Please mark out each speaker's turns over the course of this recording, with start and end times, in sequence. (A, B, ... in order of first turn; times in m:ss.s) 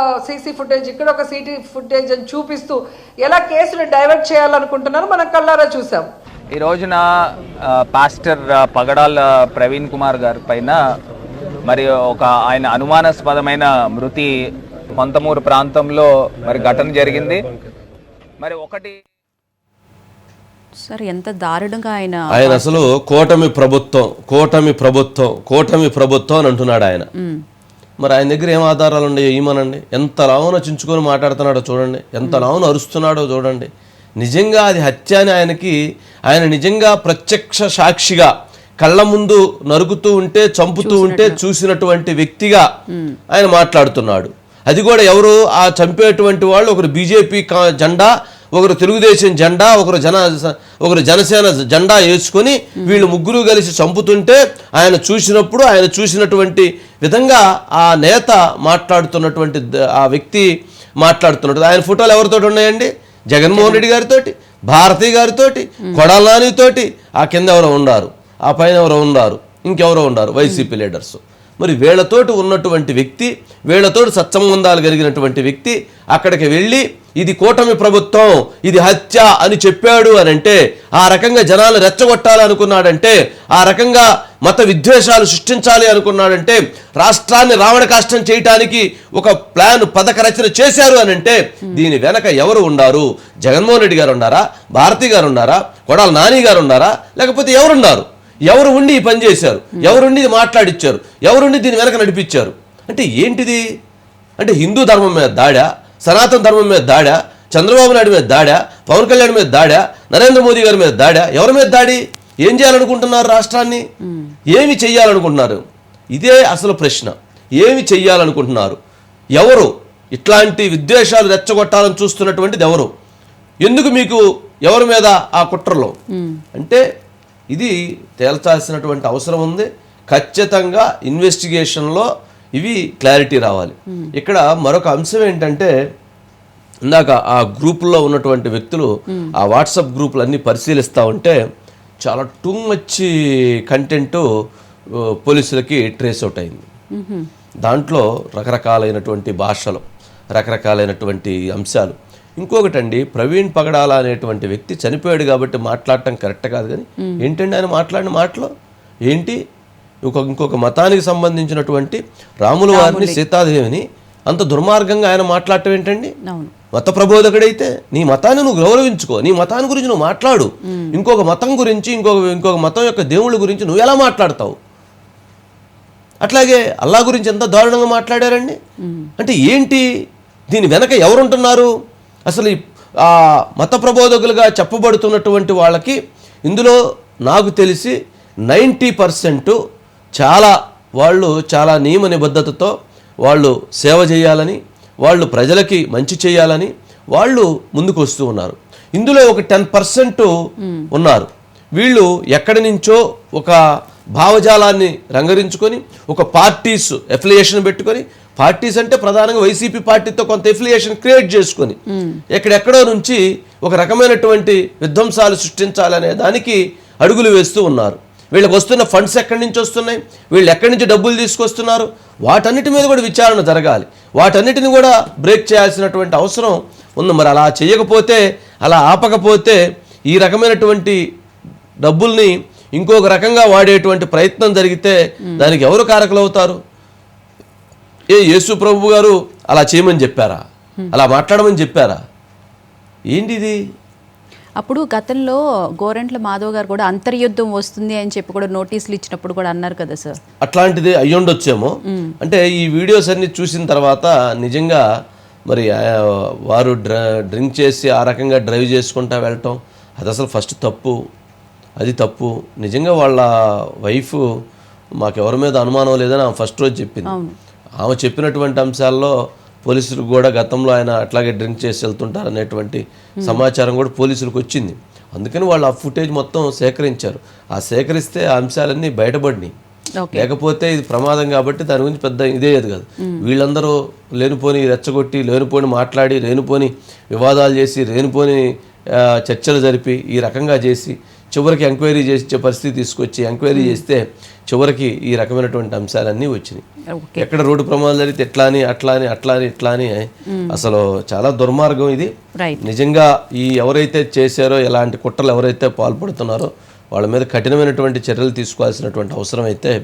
0:00.2-0:06.1 A
0:06.5-0:11.0 B
0:11.6-0:17.4 B
0:18.4-0:19.0 B
0:20.8-0:22.9 C
0:22.3-0:27.1 D
0:27.2-0:27.4 C
0:28.0-0:33.7 D
0:34.2-0:35.8 D
0:36.3-0:42.7 D
0:40.8-0:41.4 C
0:42.9-0:43.2 C
0:43.3-1:00.5 D
1:01.0-1:43.6 D
1:03.5-1:03.8 C
1:10.4-1:10.7 C
1:39.8-1:40.0 C
1:44.4-1:53.8 D
1:54.1-1:54.4 C
1:54.5-1:55.6 D
1:56.2-1:58.8 D
1:59.4-2:02.9 D
2:03.6-2:06.0 D
2:06.1-2:06.4 C
2:06.6-2:06.8 D
2:07.5-2:15.7 D
2:16.9-2:21.4 D
2:22.0-2:23.1 D
2:23.7-2:24.2 D
2:25.2-2:26.7 D
2:26.9-2:27.3 C
2:27.7-2:29.8 D
2:30.4-2:38.5 D
2:39.1-2:39.4 D
2:40.0-2:46.1 D
2:42.7-2:43.2 C
2:46.3-2:46.5 C
2:46.7-2:54.6 D
2:50.7-2:51.0 C
2:56.2-2:58.6 D
2:58.8-2:59.1 C
2:59.2-2:59.8 D
3:00.5-3:01.7 D
3:02.3-3:08.0 D
3:08.5-3:09.6 D
3:10.2-3:12.7 D
3:13.2-3:20.3 D
3:20.6-3:20.9 C
3:20.9-3:23.6 D
3:24.2-3:31.8 D
3:31.9-3:32.2 C
3:32.3-3:51.0 D
3:51.8-3:56.6 D
3:58.1-4:02.0 D
4:03.1-4:03.6 D
4:04.6-4:10.2 C
4:10.4-4:14.8 D
4:11.9-4:12.2 C
4:15.5-4:21.0 D
4:21.8-4:23.3 D
4:23.8-4:24.2 D
4:25.0-4:27.1 D
4:27.1-4:27.4 C
4:27.8-4:29.1 D
4:29.6-4:39.5 D
4:40.0-4:40.3 C
4:40.1-4:48.4 D
4:49.0-4:56.6 D
4:53.5-4:53.8 C
4:56.9-4:57.3 C
4:57.2-5:09.8 D
5:00.3-5:00.7 C
5:02.4-5:02.6 C